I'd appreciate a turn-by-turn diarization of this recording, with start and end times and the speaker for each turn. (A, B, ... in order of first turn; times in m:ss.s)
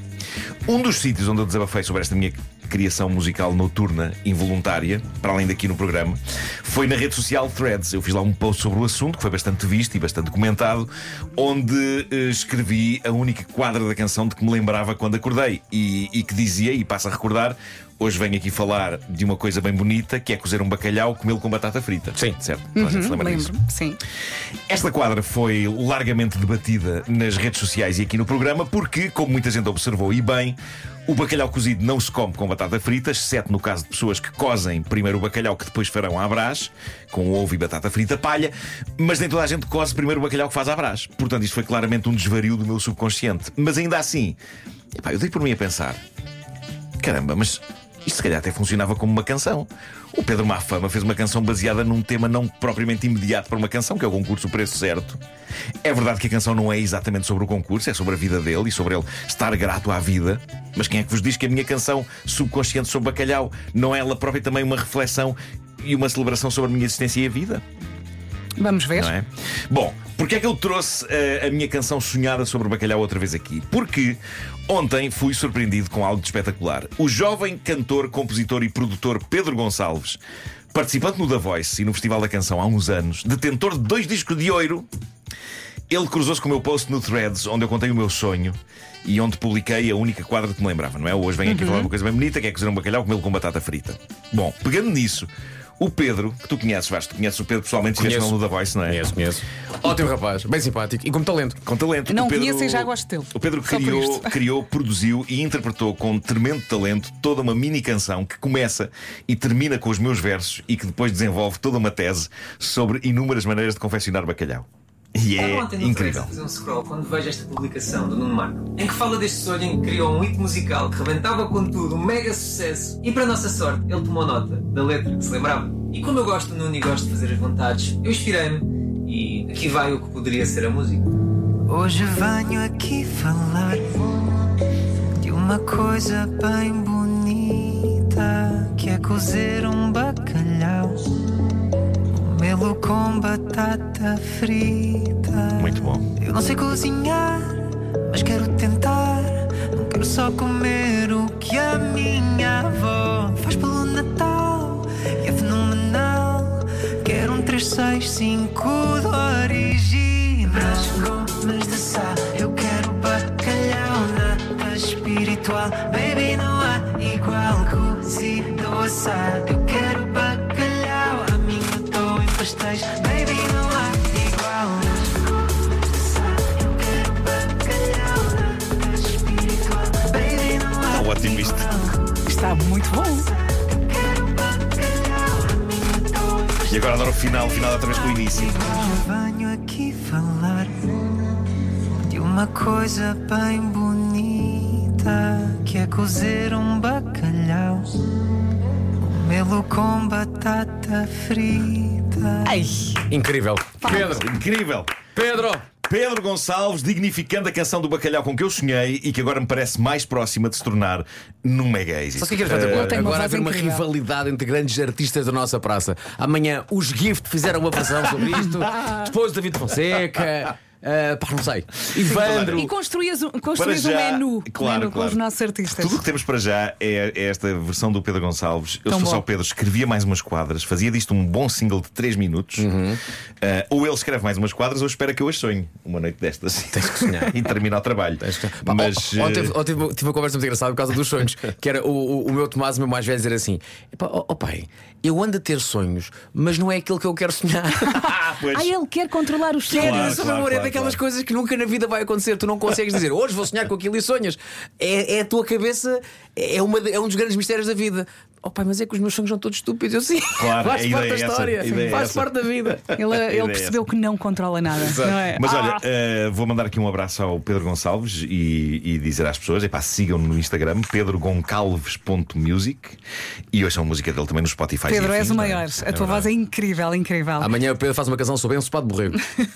0:00.6-0:23.5 A
0:22.7-0:24.0 B
0:24.7-0:44.4 A
0:44.9-0:46.0 A
0:47.0-0:55.2 A
0:55.8-1:07.6 A
1:08.6-1:09.1 B
1:08.9-1:20.2 A
1:20.7-1:24.9 A
1:25.9-1:39.1 A
1:31.5-1:31.8 B
1:38.0-1:41.6 C
1:41.6-1:56.3 A
1:42.0-1:44.3 B
1:55.4-2:11.1 D
2:11.7-2:14.5 E
2:15.2-2:21.2 E
2:22.1-3:02.1 E
2:25.5-2:26.1 A
3:00.9-3:01.7 A
3:02.2-3:03.3 B
3:03.2-3:06.7 E
3:06.7-3:09.0 A
3:08.1-3:11.4 E
3:12.0-3:18.1 E
3:19.0-3:22.5 E
3:22.4-3:23.0 B
3:23.1-3:24.3 C
3:23.8-3:24.9 A
3:25.1-3:25.6 C
3:25.9-3:33.1 A
3:32.2-3:42.7 C
3:32.5-3:33.8 B
3:41.9-3:42.7 A
3:42.0-3:46.0 B
3:43.5-3:52.7 A
3:48.9-3:49.2 B
3:52.6-3:53.0 C
3:53.4-3:59.6 A
3:56.7-3:57.4 C
3:58.2-4:08.1 C
4:07.9-4:08.7 A
4:08.4-4:10.3 B
4:09.7-4:23.0 C
4:09.7-4:11.0 A
4:20.4-4:23.8 A
4:23.0-4:25.8 B
4:24.8-4:33.0 A
4:33.5-4:36.3 A
4:34.9-4:37.5 B
4:37.4-4:39.2 C